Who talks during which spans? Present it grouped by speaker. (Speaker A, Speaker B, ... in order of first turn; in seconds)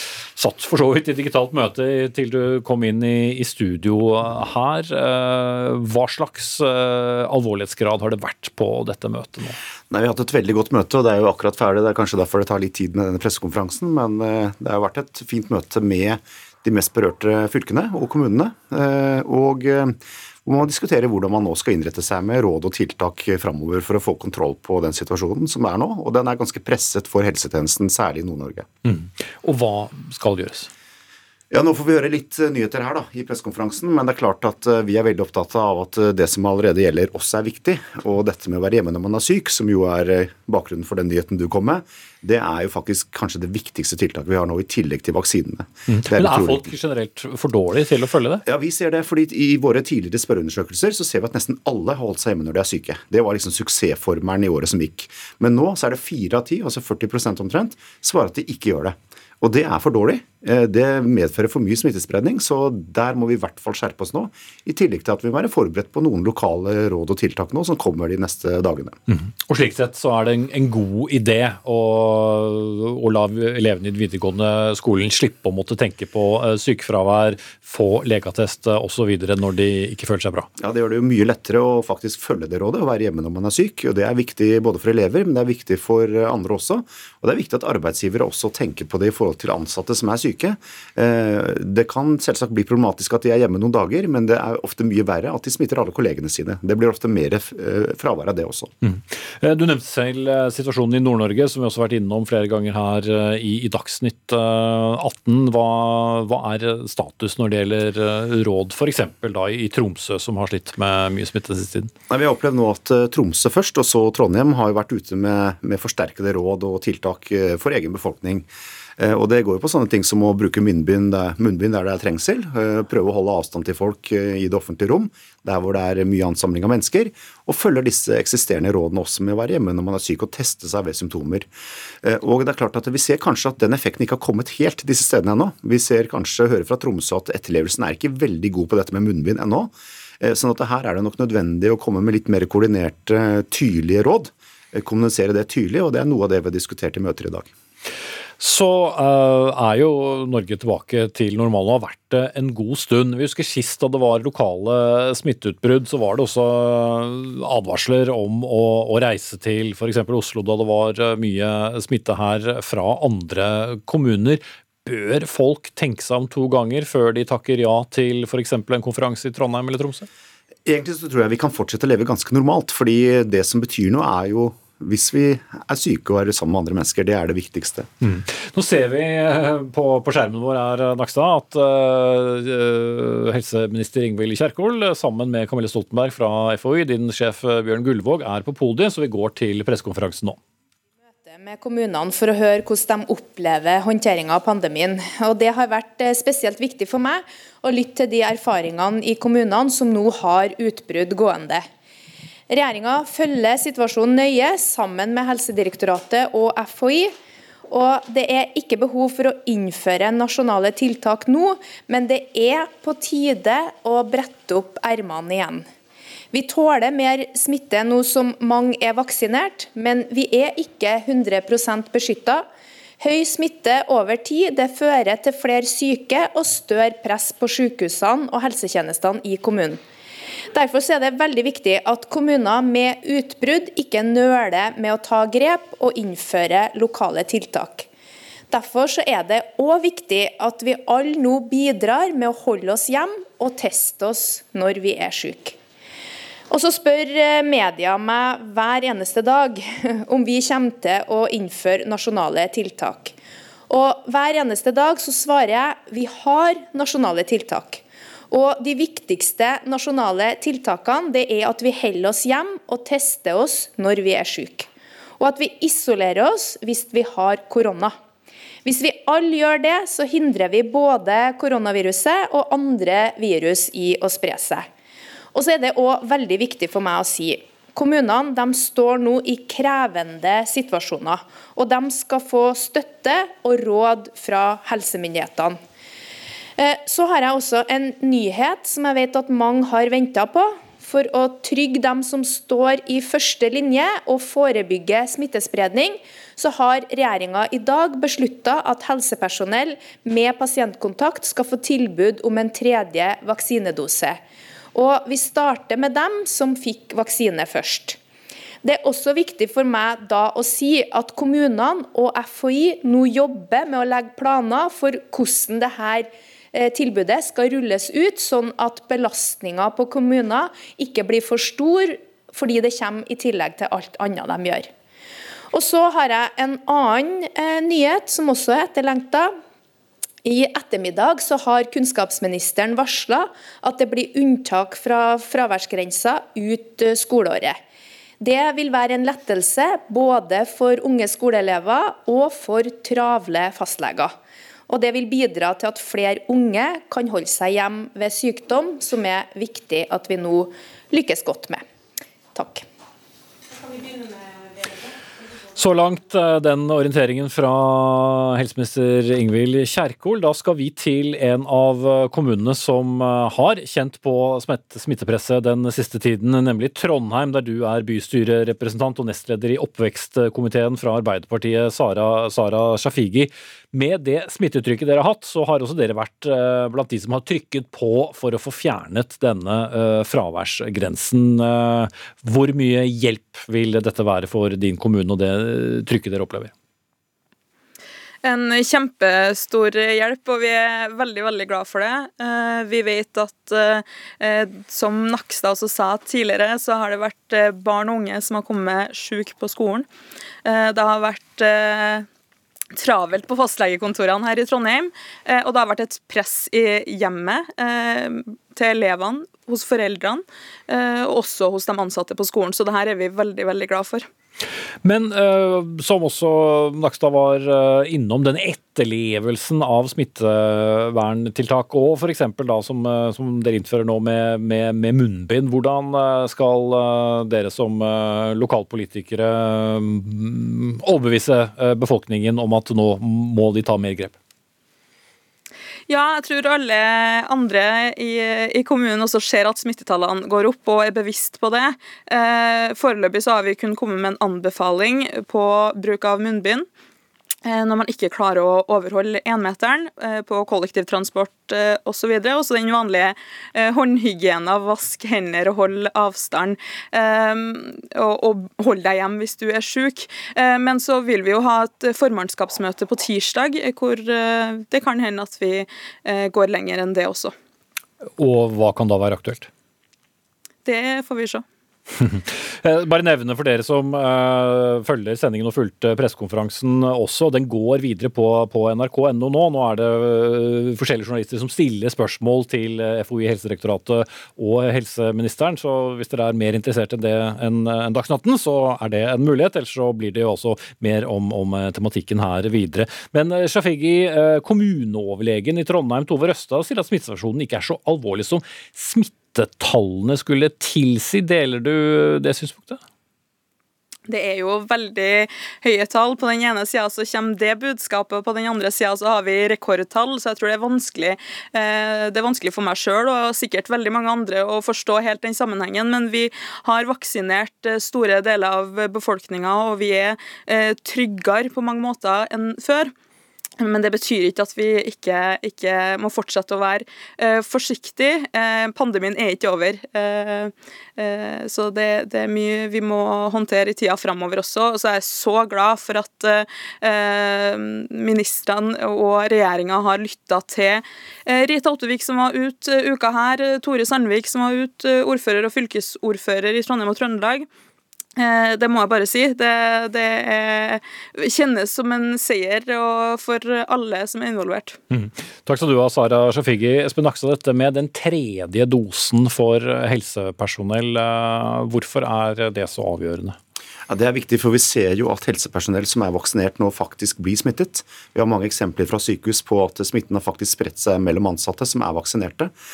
Speaker A: 0.3-9.6, 28.8-30.7, 45.9-48.4, 69.1-80.5, 98.8-111.9, 148.4-170.1, 178.0-190.4, 355.5-386.5, 414.8-434.1, 468.2-469.5, 471.9-502.8, 554.9-563.4
Speaker B: 9.9-28.7, 31.5-46.7, 48.5-69.0, 80.6-98.7, 112.1-131.5, 132.0-147.5, 170.6-177.9, 563.9-572.5
Speaker C: 191.2-201.6, 202.5-207.1, 207.7-215.7, 216.3-222.4, 223.0-229.8, 230.5-237.9, 238.5-245.6, 246.5-253.1, 253.7-264.7, 265.2-267.9, 268.6-274.7, 275.3-285.6, 286.6-304.2, 304.7-308.0, 308.6-324.7, 325.5-329.3, 330.2-337.6, 338.2-344.1, 344.7-351.6, 352.3-352.6
Speaker D: 388.2-399.9, 400.4-402.1, 402.7-414.1, 435.9-446.7, 447.4-467.3, 470.6-471.4, 504.1-522.9, 523.6-547.5, 548.1-554.8